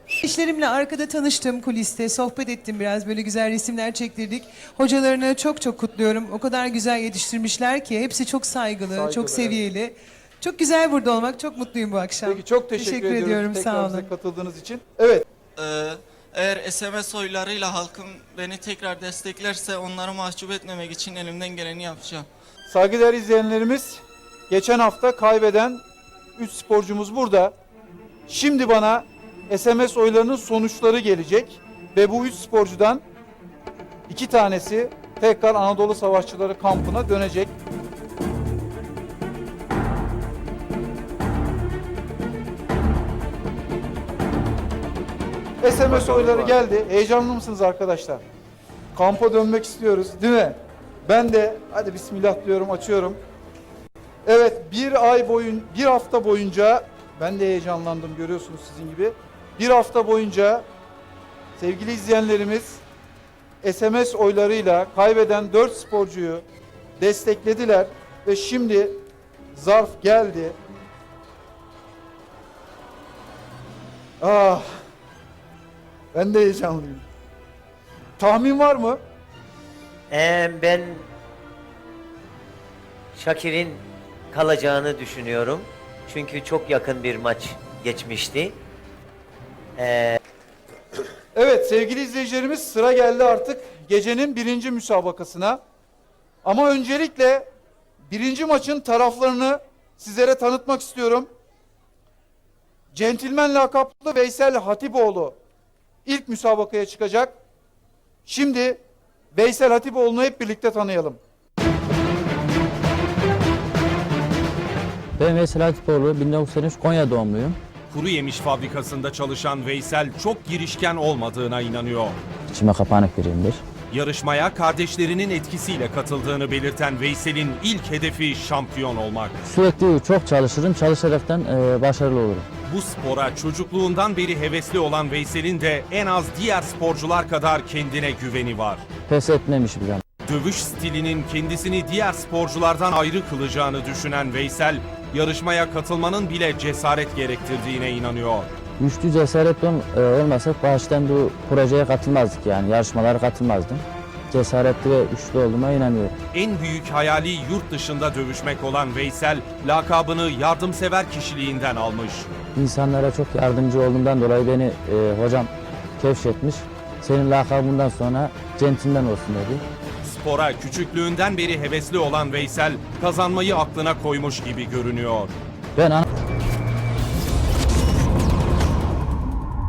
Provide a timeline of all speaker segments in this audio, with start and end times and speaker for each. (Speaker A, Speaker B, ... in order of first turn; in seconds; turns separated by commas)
Speaker A: 0.2-14.1, Speaker B: 8.8-9.6, Speaker B: 12.2-15.2, Speaker C: 15.6-22.3, Speaker B: 22.7-25.8, Speaker B: 26.4-27.5, Speaker B: 28.3-33.0, Speaker B: 34.1-37.5, Speaker B: 45.6-48.2, Speaker B: 48.9-53.2, Speaker B: 54.2-60.6, Speaker B: 61.6-62.8, Speaker B: 63.6-66.4, Speaker B: 67.0-69.0, Speaker B: 69.5-70.6, Speaker B: 74.2-74.8, Speaker B: 76.1-77.0, Speaker B: 78.2-79.0, Speaker D: 80.1-81.0, Speaker D: 83.1-88.6, Speaker D: 89.8-90.2, Speaker B: 91.3-95.6, Speaker B: 96.4-97.5, Speaker B: 98.0-101.3, Speaker B: 102.9-105.4, Speaker B: 106.0-107.3, Speaker B: 108.2-108.8, Speaker B: 109.3-111.2, Speaker E: 115.2-117.6, Speaker F: 117.9-122.2, Speaker E: 122.5-123.6, Speaker F: 123.9-129.4, Speaker E: 129.4-132.5, Speaker F: 132.7-138.8, Speaker E: 139.1-140.0, Speaker F: 140.2-148.5, Speaker E: 148.8-156.1, Speaker F: 156.3-162.3, Speaker E: 162.5-169.6, Speaker F: 170.0-175.3, Speaker E: 175.8-176.0